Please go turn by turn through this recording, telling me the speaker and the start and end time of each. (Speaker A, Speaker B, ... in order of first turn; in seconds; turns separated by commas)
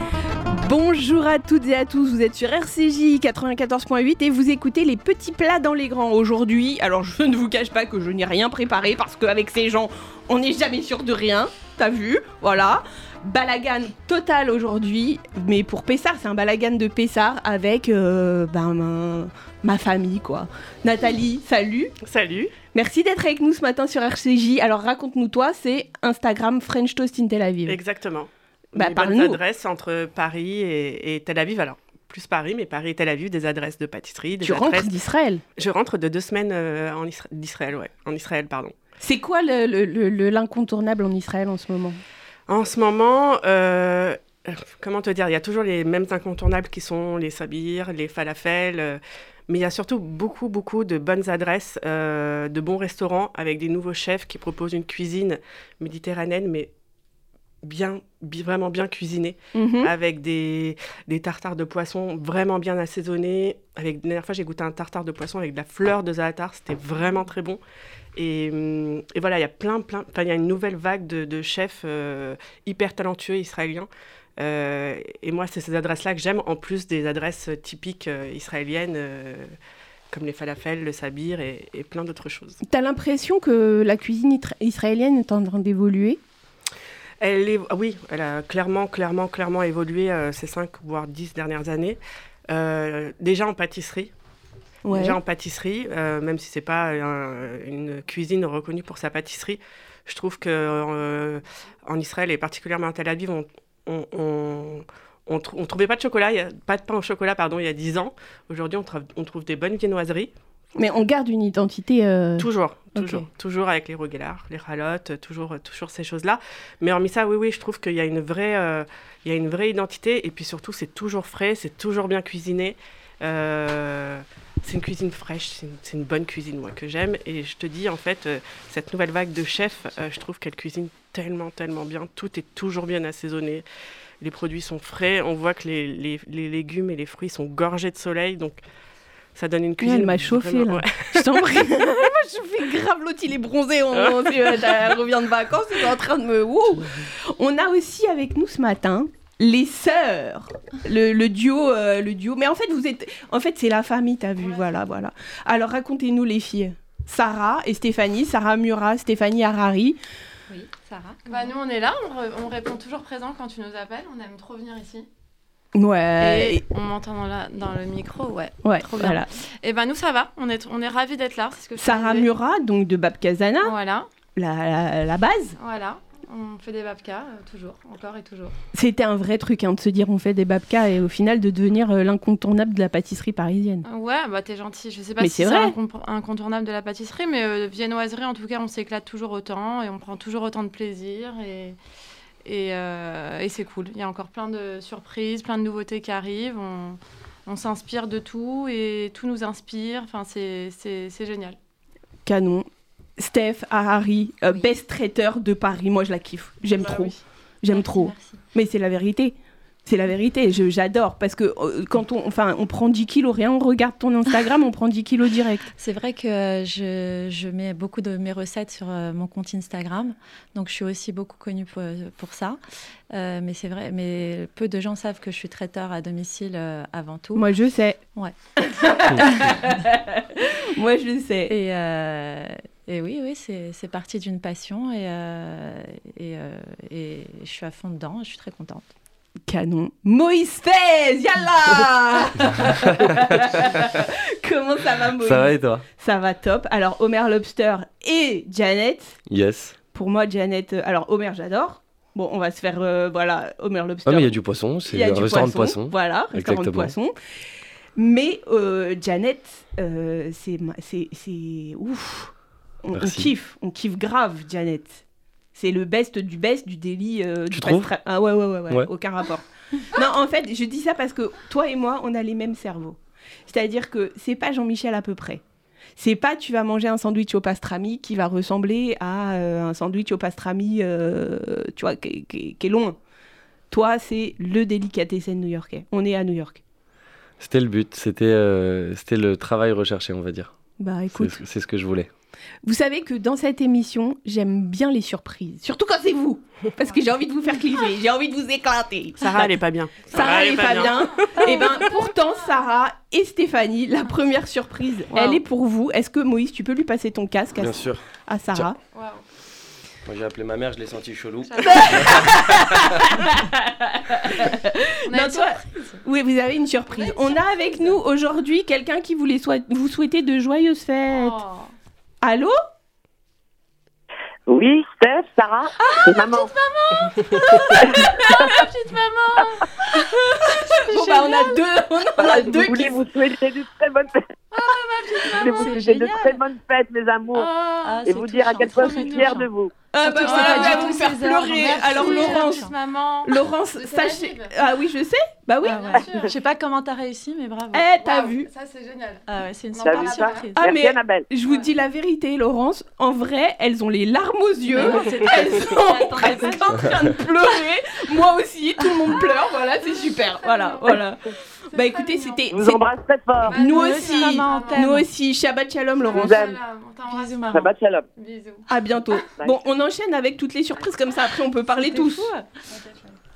Speaker A: 0.5-21.9, Speaker B: 22.0-22.5, Speaker A: 22.7-27.8, Speaker B: 27.7-34.9, Speaker A: 28.8-29.4, Speaker A: 34.4-35.4, Speaker B: 35.6-38.7, Speaker A: 39.0-42.0, Speaker B: 42.5-56.7, Speaker B: 57.6-67.6, Speaker A: 59.5-59.9, Speaker B: 68.2-79.5, Speaker B: 80.1-82.6, Speaker A: 82.6-86.2, Speaker B: 87.2-92.0, Speaker B: 92.5-94.1, Speaker A: 94.8-95.2, Speaker B: 94.9-110.3, Speaker A: 110.8-113.3, Speaker B: 112.4-133.6, Speaker B: 134.2-138.6, Speaker B: 139.3-141.7, Speaker A: 139.8-160.0, Speaker B: 143.9-145.0, Speaker C: 154.4-154.7, Speaker D: 160.5-161.5, Speaker C: 161.3-165.1, Speaker A: 165.7-166.6, Speaker C: 166.2-172.3, Speaker A: 168.6-169.3, Speaker A: 171.8-173.8, Speaker C: 173.6-174.1, Speaker A: 174.3-175.6, Speaker C: 175.6-178.5, Speaker A: 178.7-183.8, Speaker C: 183.9-191.8, Speaker A: 185.2-185.8, Speaker C: 192.4-201.6, Speaker A: 202.2-215.7, Speaker C: 206.8-207.1, Speaker D: 207.7-208.4, Speaker D: 215.8-222.6, Speaker D: 223.1-227.5, Speaker A: 227.3-228.0, Speaker A: 228.6-231.6, Speaker D: 229.0-229.6, Speaker D: 231.5-238.9, Speaker A: 239.5-249.2, Speaker E: 245.2-245.8, Speaker E: 249.3-249.8, Speaker A: 249.9-254.3, Speaker E: 254.1-256.9, Speaker A: 254.9-257.1, Speaker A: 257.9-262.3, Speaker A: 262.8-265.0, Speaker E: 262.9-263.3, Speaker A: 265.5-275.4, Speaker E: 267.5-267.9, Speaker A: 276.0-282.9, Speaker A: 283.7-286.6, Speaker E: 287.4-290.5, Speaker A: 290.8-291.4, Speaker E: 291.1-292.1, Speaker A: 292.6-299.5, Speaker B: 299.2-301.8, Speaker A: 300.1-308.8, Speaker C: 301.6-302.3, Speaker E: 307.6-308.0, Speaker C: 308.8-309.2, Speaker E: 310.0-312.3, Speaker C: 311.5-312.4, Speaker A: 311.6-321.4, Speaker C: 315.1-316.0, Speaker C: 316.9-317.8, Speaker C: 321.1-321.7, Speaker A: 322.2-322.6, Speaker F: 324.5-326.5, Speaker C: 325.8-331.7, Speaker A: 327.3-328.6, Speaker F: 328.0-328.6, Speaker A: 329.9-333.0, Speaker F: 332.3-334.3, Speaker C: 334.5-335.9, Speaker D: 335.3-336.4, Speaker F: 335.4-337.5, Speaker D: 337.3-339.5, Speaker C: 337.6-337.9, Speaker F: 338.0-339.7, Speaker C: 338.8-339.3, Speaker A: 339.9-342.7, Speaker D: 340.0-342.7, Speaker C: 340.2-344.6, Speaker A: 343.2-346.0, Speaker C: 345.6-346.3, Speaker D: 345.7-347.9, Speaker A: 347.7-348.5, Speaker C: 347.9-350.5, Speaker D: 349.3-350.7, Speaker F: 349.8-351.3, Speaker A: 350.6-362.8, Speaker C: 354.7-356.8, Speaker D: 354.8-356.9, Speaker C: 360.0-361.0, Speaker C: 361.7-362.5, Speaker F: 362.5-363.6, Speaker C: 363.5-365.1, Speaker A: 363.5-366.4, Speaker D: 363.8-365.0, Speaker C: 366.0-368.7, Speaker F: 366.1-366.6, Speaker D: 367.1-367.7, Speaker F: 367.5-368.1, Speaker A: 368.7-372.3, Speaker D: 371.8-373.1